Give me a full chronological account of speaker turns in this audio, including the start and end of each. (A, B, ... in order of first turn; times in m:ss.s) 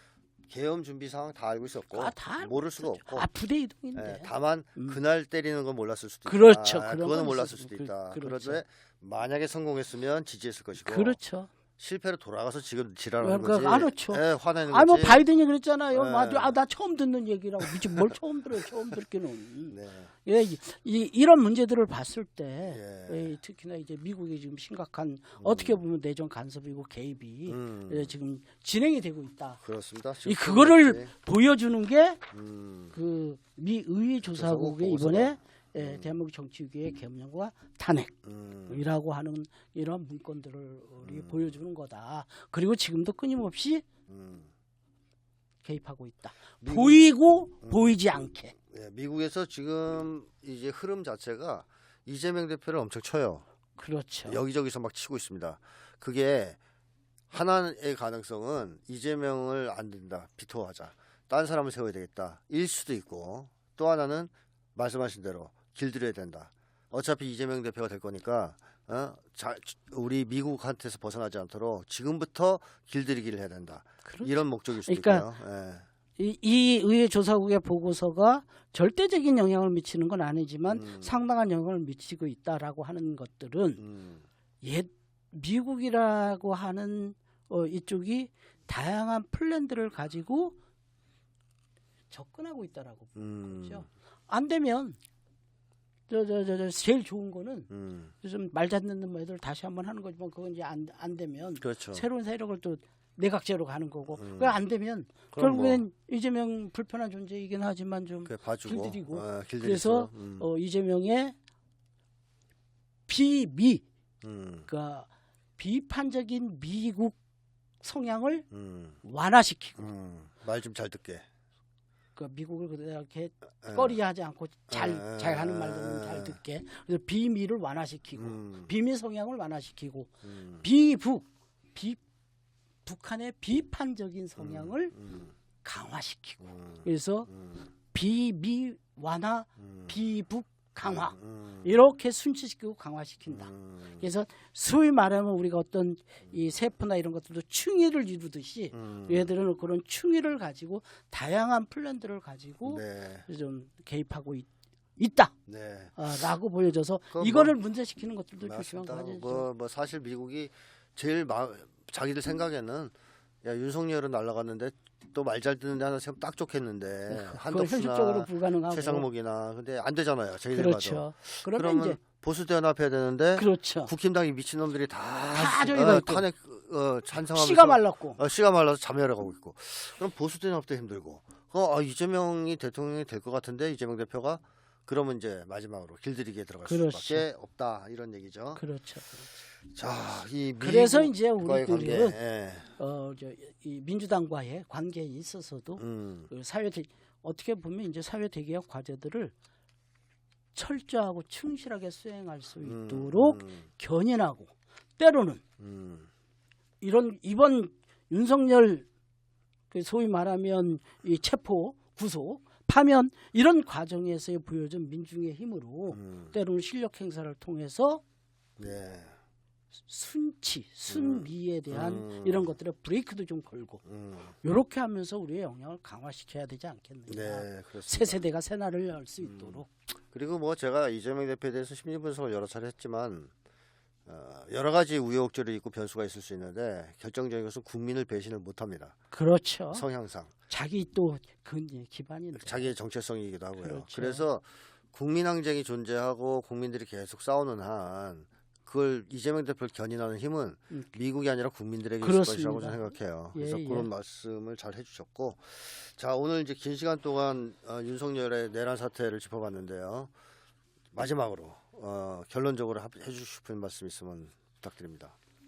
0:00.5-0:03.3 A
0:01.9-0:05.0 B
0:03.9-0:11.2 A
0:06.2-0:08.6 B
0:10.8-0:11.5 B
0:11.8-0:15.2 A
0:13.2-0:29.6 B
0:15.9-0:16.5 A
0:17.6-0:18.0 A
0:19.7-0:20.1 A
0:22.6-0:23.4 A
0:25.4-0:25.8 A
0:27.5-0:28.1 A
0:29.6-0:31.1 A
0:30.2-0:32.2 B
0:32.3-0:32.9 A
0:32.9-0:38.1 B
0:34.2-0:36.2 A
0:38.2-0:38.8 A
0:38.7-0:43.8 B
0:41.0-0:41.6 A
0:44.1-0:44.5 A
0:45.6-0:48.5 B
0:46.6-0:47.0 A
0:47.6-0:48.0 A
0:48.7-0:53.4 A
0:53.8-0:54.4 B
0:54.3-0:56.6 A
0:57.3-1:15.8 A
1:14.0-1:15.3 B
1:16.2-1:23.8 B
1:20.7-1:21.1 A
1:23.8-1:24.2 A
1:24.6-1:30.6 B
1:32.1-1:35.0 B
1:33.2-1:33.8 A
1:36.1-1:37.7 B
1:37.7-1:38.1 A
1:38.2-1:51.3 B
1:41.6-1:42.0 A
1:44.1-1:44.6 A
1:45.3-1:45.8 A
1:48.2-1:50.5 A
1:53.1-1:53.8 B
1:54.2-1:54.7 A
1:54.7-1:57.2 B
1:57.8-1:58.4 B
1:58.5-1:59.0 A
1:59.0-1:59.9 B
1:59.8-2:01.2 A
2:02.2-2:12.0 B
2:03.6-2:04.0 A
2:04.7-2:06.4 A
2:08.2-2:08.7 A
2:10.2-2:10.6 A
2:12.8-2:15.0 B
2:14.4-2:15.3 A
2:15.6-2:17.3 B
2:16.4-2:16.8 A
2:17.9-2:35.3 B
2:19.6-2:19.9 A
2:20.8-2:21.7 A
2:23.3-2:24.0 A
2:28.7-2:29.3 A
2:32.6-2:33.2 A
2:35.5-2:36.0 A
2:36.0-2:39.5 B
2:37.1-2:37.6 A
2:38.4-3:08.6 A
2:47.1-2:49.0 B
2:50.5-2:52.0 B
2:53.4-2:53.9 B
2:55.3-2:56.2 B
2:57.3-2:58.2 B
3:06.7-3:07.3 B
3:08.6-3:09.3 B
3:09.6-3:12.7 A
3:10.6-3:12.2 B
3:12.8-3:19.3 B
3:15.8-3:16.3 A
3:20.5-3:25.4 B
3:22.6-3:23.6 A
3:25.6-3:26.1 A
3:26.8-3:28.9 B
3:29.7-3:38.0 B
3:35.9-3:36.3 A
3:38.6-3:39.2 A
3:39.9-3:43.8 B
3:40.9-3:42.5 A
3:43.8-3:44.3 A
3:44.4-3:49.7 B
3:47.1-3:48.2 A
3:49.2-3:53.3 A
3:54.1-3:58.9 A
3:59.1-3:59.8 B
3:59.7-4:00.3 A
4:00.5-4:02.7 B
4:02.4-4:20.1 A
4:03.6-4:04.2 B
4:12.0-4:13.9 B
4:20.9-4:25.1 A